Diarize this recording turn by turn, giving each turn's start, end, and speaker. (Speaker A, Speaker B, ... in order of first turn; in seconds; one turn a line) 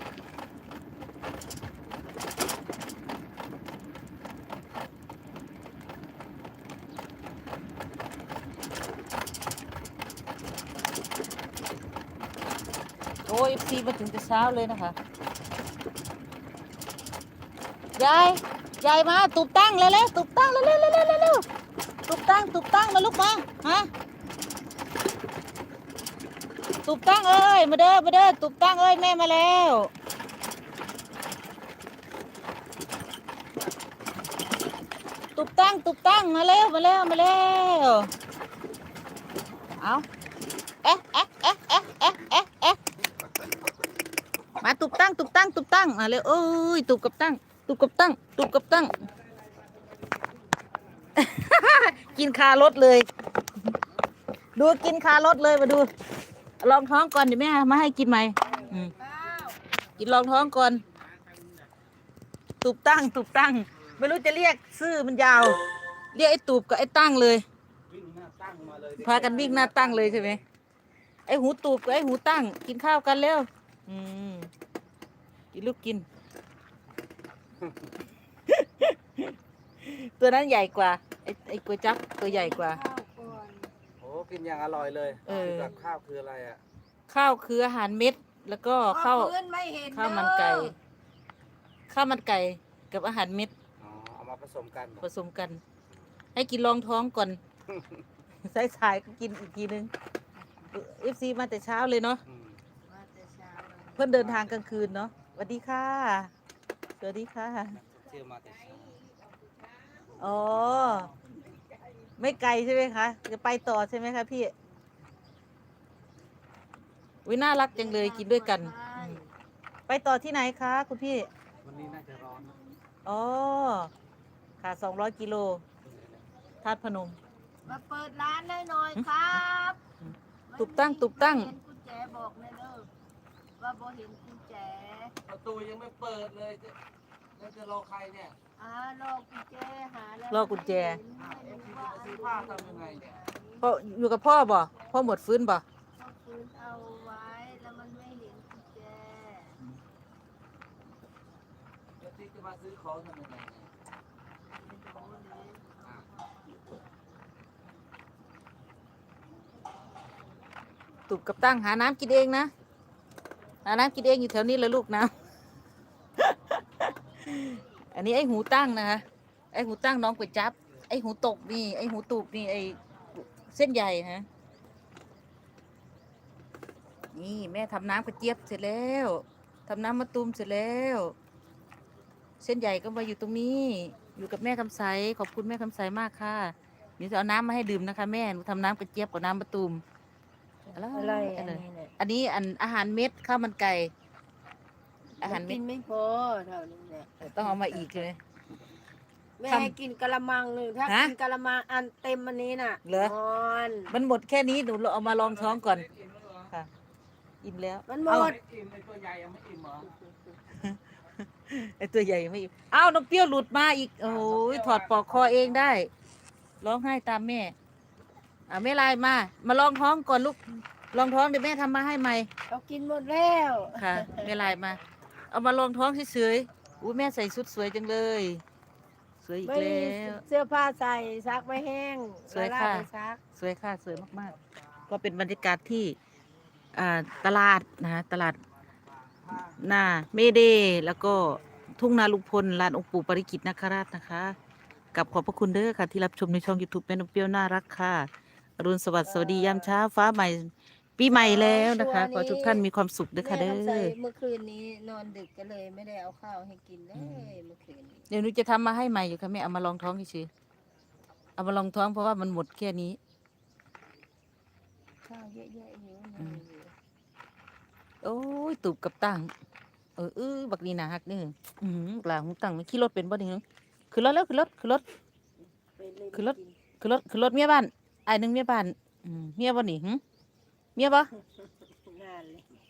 Speaker A: 13.3-14.9
Speaker A: 18.0-21.5
Speaker A: 22.1-23.9
Speaker A: 26.9-29.9
Speaker A: 35.4-38.1
Speaker A: 39.8-40.1
Speaker A: 40.8-42.8
Speaker A: 44.6-49.0
Speaker A: 51.1-53.1
Speaker A: 54.6-55.9
Speaker A: 56.6-58.9
Speaker B: 58.7-59.6
Speaker A: 60.0-60.8
Speaker A: 62.6-65.6
Speaker A: 66.1-67.4
Speaker C: 67.9-70.4
Speaker A: 69.0-70.4
Speaker A: 71.3-74.5
Speaker A: 75.5-76.1
Speaker A: 78.5-82.8
Speaker B: 82.2-83.7
Speaker C: 84.0-86.6
Speaker B: 85.1-85.9
Speaker A: 85.3-85.7
Speaker A: 87.1-89.3
Speaker B: 88.9-90.8
Speaker A: 89.9-90.8
Speaker A: 91.9-93.5
Speaker C: 93.8-95.0
Speaker A: 95.0-95.6
Speaker A: 96.3-97.4
Speaker A: 98.5-99.9
Speaker A: 100.7-102.2
Speaker C: 102.3-102.6
Speaker B: 102.9-104.3
Speaker A: 104.0-106.3
Speaker C: 104.2-104.5
Speaker A: 107.0-107.8
Speaker C: 107.8-109.1
Speaker A: 110.2-111.1
Speaker A: 112.2-114.5
Speaker A: 117.3-119.2
Speaker B: 117.7-119.3
Speaker A: 119.9-121.3
Speaker C: 121.6-122.5
Speaker A: 123.0-123.9
Speaker A: 124.6-125.6
Speaker C: 125.9-126.2
Speaker A: 126.6-127.2
Speaker B: 127.7-129.8
Speaker B: 130.5-132.9
Speaker A: 130.6-131.5
Speaker B: 133.6-135.1
Speaker C: 135.3-136.8
Speaker C: 137.4-138.3
Speaker B: 138.6-143.7
Speaker A: 140.3-141.0
Speaker C: 141.2-143.1
Speaker A: 143.6-145.6
Speaker B: 146.0-149.6
Speaker C: 152.0-153.7
Speaker B: 154.5-156.4
Speaker A: 161.1-162.5
Speaker A: 163.7-165.2
Speaker A: 166.2-174.3
Speaker A: 177.1-181.2
Speaker A: 182.4-189.8
Speaker B: 190.7-191.9
Speaker A: 190.7-193.9
Speaker B: 195.2-198.0
Speaker A: 195.2-195.6
Speaker A: 197.2-198.2
Speaker B: 199.4-203.9
Speaker A: 199.5-199.8
Speaker A: 200.9-201.1
Speaker A: 202.8-203.2
Speaker A: 203.9-205.9
Speaker C: 205.3-206.5
Speaker A: 207.4-208.4
Speaker B: 207.9-208.4
Speaker C: 208.2-209.9
Speaker B: 209.8-210.3
Speaker A: 210.5-210.8
Speaker A: 211.4-215.9
Speaker C: 214.2-215.4
Speaker A: 216.6-217.6
Speaker A: 218.5-222.3
Speaker B: 222.5-224.3
Speaker A: 223.8-228.4
Speaker A: 229.2-230.2
Speaker B: 229.4-233.2
Speaker A: 232.3-236.0
Speaker A: 236.7-238.4
Speaker A: 239.5-244.4
Speaker A: 244.9-253.9
Speaker B: 249.0-249.7
Speaker B: 251.1-252.6
Speaker B: 253.2-258.1
Speaker A: 257.0-257.3
Speaker A: 258.1-260.3
Speaker A: 261.4-263.0
Speaker B: 265.1-266.7
Speaker A: 268.0-269.3
Speaker A: 270.0-274.8
Speaker B: 275.8-276.6
Speaker A: 276.1-280.0
Speaker A: 280.8-281.1
Speaker B: 281.2-282.5